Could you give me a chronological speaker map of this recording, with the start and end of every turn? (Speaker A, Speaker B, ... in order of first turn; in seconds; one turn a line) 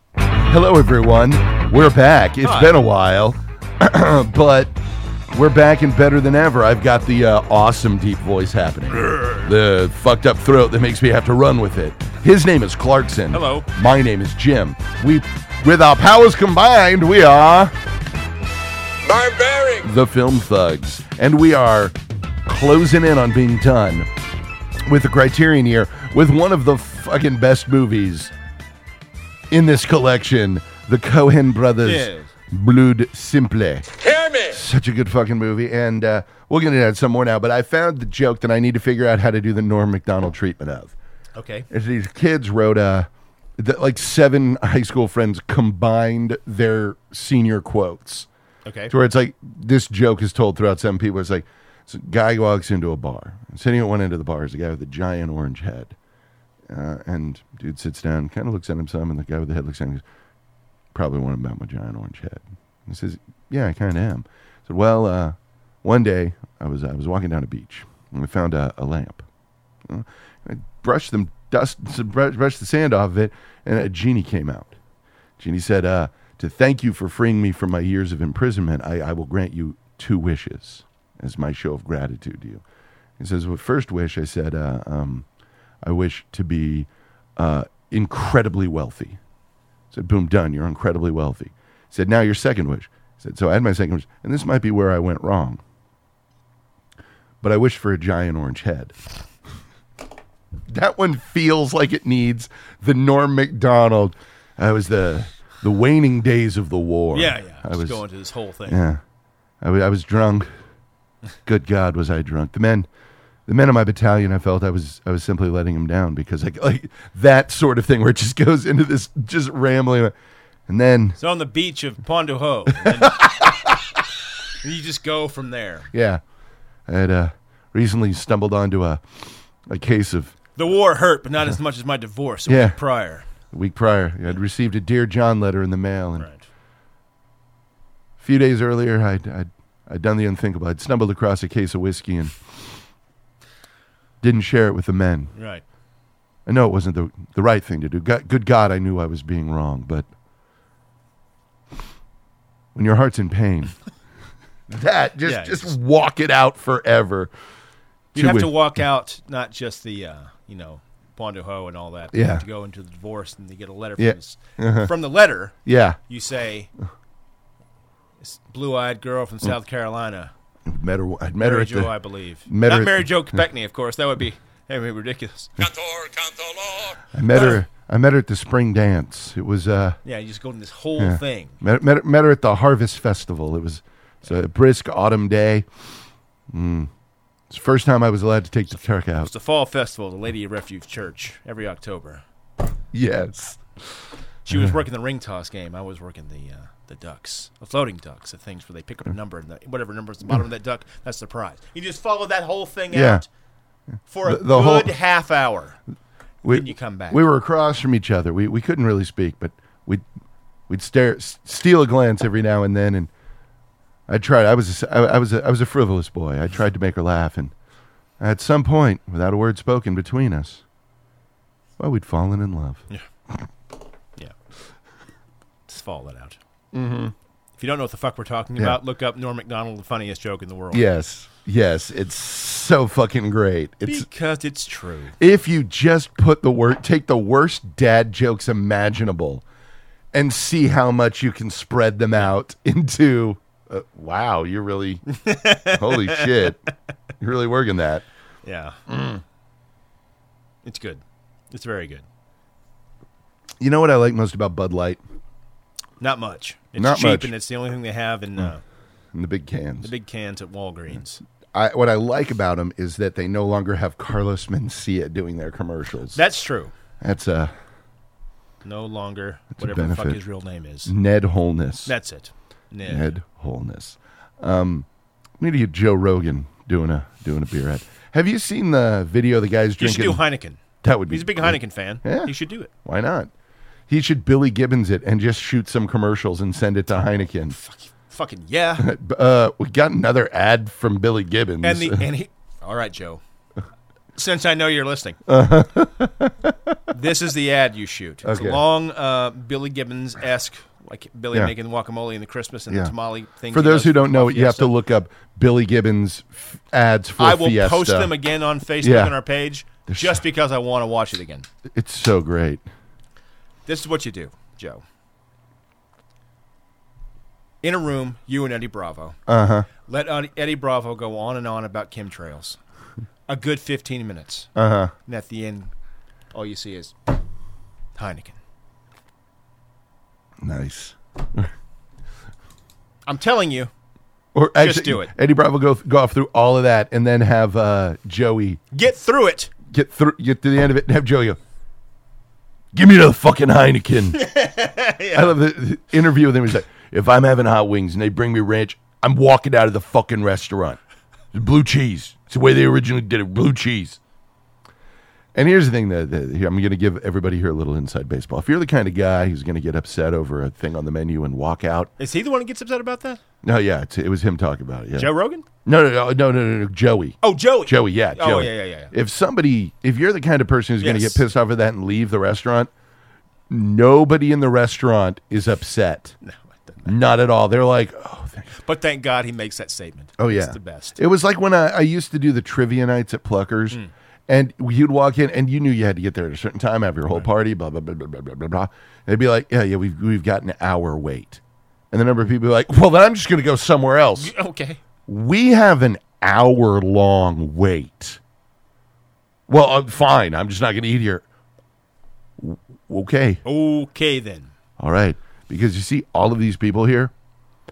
Speaker A: 0.5-4.7
Speaker B: 2.4-2.8
Speaker A: 5.3-17.7
Speaker B: 9.0-9.5
Speaker B: 13.3-13.7
Speaker C: 19.0-19.7
Speaker A: 19.6-24.1
Speaker A: 24.9-28.3
Speaker A: 29.5-40.9
Speaker B: 31.8-32.3
Speaker B: 41.4-41.7
Speaker A: 41.7-48.3
Speaker B: 48.7-48.9
Speaker A: 48.9-56.0
Speaker A: 56.7-60.0
Speaker A: 60.9-69.2
Speaker A: 69.9-74.7
Speaker A: 75.4-82.6
Speaker A: 83.2-85.3
Speaker A: 85.8-89.2
Speaker A: 89.9-95.6
Speaker A: 97.4-99.0
Speaker A: 100.7-108.0
Speaker B: 107.1-108.8
Speaker A: 108.7-109.0
Speaker A: 109.6-110.5
Speaker A: 111.5-112.9
Speaker A: 113.5-120.1
Speaker A: 120.7-121.2
Speaker B: 121.2-123.5
Speaker A: 122.9-123.8
Speaker B: 124.6-125.9
Speaker A: 125.9-126.2
Speaker A: 126.9-130.3
Speaker B: 130.6-133.3
Speaker A: 132.5-132.8
Speaker A: 133.5-136.3
Speaker A: 138.2-142.4
Speaker A: 144.2-145.3
Speaker B: 145.3-145.6
Speaker A: 146.5-150.1
Speaker A: 152.8-153.7
Speaker A: 154.7-157.3
Speaker B: 155.2-155.8
Speaker B: 158.1-165.6
Speaker A: 158.2-158.5
Speaker A: 162.1-162.4
Speaker A: 164.0-164.9
Speaker A: 165.7-166.0
Speaker B: 166.1-166.7
Speaker B: 168.2-170.3
Speaker A: 170.7-171.9
Speaker B: 171.4-175.7
Speaker A: 172.5-173.2
Speaker C: 175.7-176.9
Speaker A: 177.1-180.0
Speaker B: 180.1-181.6
Speaker A: 181.0-185.7
Speaker A: 186.5-186.9
Speaker A: 187.5-189.3
Speaker B: 189.2-192.2
Speaker A: 192.9-193.6
Speaker B: 194.4-203.3
Speaker A: 202.9-203.2
Speaker B: 204.1-205.8
Speaker A: 204.2-204.9
Speaker A: 206.4-210.0
Speaker B: 206.5-207.2
Speaker A: 210.7-213.1
Speaker A: 214.1-217.5
Speaker A: 218.2-220.6
Speaker A: 221.8-222.8
Speaker B: 225.7-226.4
Speaker A: 226.7-227.1
Speaker B: 227.6-230.8
Speaker A: 230.7-234.1
Speaker B: 233.9-235.2
Speaker A: 235.2-239.4
Speaker A: 240.1-245.0
Speaker B: 245.1-246.4
Speaker A: 245.7-246.6
Speaker A: 247.2-248.1
Speaker B: 248.4-248.8
Speaker A: 248.9-249.2
Speaker B: 250.6-252.1
Speaker A: 253.6-255.0
Speaker B: 256.0-258.6
Speaker A: 256.8-257.3
Speaker A: 259.1-259.9
Speaker B: 259.8-261.2
Speaker A: 261.5-266.2
Speaker B: 266.1-266.7
Speaker A: 267.0-267.5
Speaker B: 268.6-270.9
Speaker A: 269.6-270.2
Speaker A: 270.9-271.9
Speaker B: 271.9-273.1
Speaker A: 272.9-274.9
Speaker A: 275.4-280.2
Speaker B: 279.8-282.7
Speaker A: 280.8-282.3
Speaker A: 282.8-283.3
Speaker A: 283.9-287.6
Speaker B: 287.5-288.9
Speaker A: 288.8-292.1
Speaker B: 291.6-293.2
Speaker B: 294.1-295.2
Speaker A: 295.3-296.8
Speaker B: 296.9-304.7
Speaker A: 298.2-298.6
Speaker A: 303.5-308.1
Speaker B: 307.2-311.5
Speaker A: 308.8-309.2
Speaker A: 309.9-310.2
Speaker A: 311.7-312.6
Speaker B: 313.7-314.8
Speaker B: 317.6-319.2
Speaker A: 319.3-319.7
Speaker B: 319.8-322.6
Speaker B: 323.3-324.5
Speaker A: 324.6-324.9
Speaker B: 325.1-325.7
Speaker B: 326.3-327.0
Speaker B: 328.0-328.4
Speaker A: 330.4-331.5
Speaker B: 333.1-333.7
Speaker A: 334.4-338.6
Speaker B: 334.6-335.1
Speaker B: 338.7-339.5
Speaker A: 339.7-341.4
Speaker A: 342.7-344.2
Speaker B: 344.1-345.4
Speaker A: 345.1-350.8
Speaker A: 351.3-354.0
Speaker A: 355.4-361.9
Speaker B: 362.0-363.2
Speaker A: 363.4-365.1
Speaker B: 365.0-365.4
Speaker A: 365.6-372.7
Speaker B: 367.2-368.9
Speaker B: 370.8-371.2
Speaker A: 373.5-376.2
Speaker B: 376.2-376.9
Speaker A: 376.9-378.5
Speaker B: 378.6-381.0
Speaker A: 380.2-394.3
Speaker B: 394.2-394.8
Speaker A: 395.1-398.2
Speaker A: 399.5-401.2
Speaker A: 402.4-403.4
Speaker B: 403.4-404.5
Speaker A: 404.8-407.1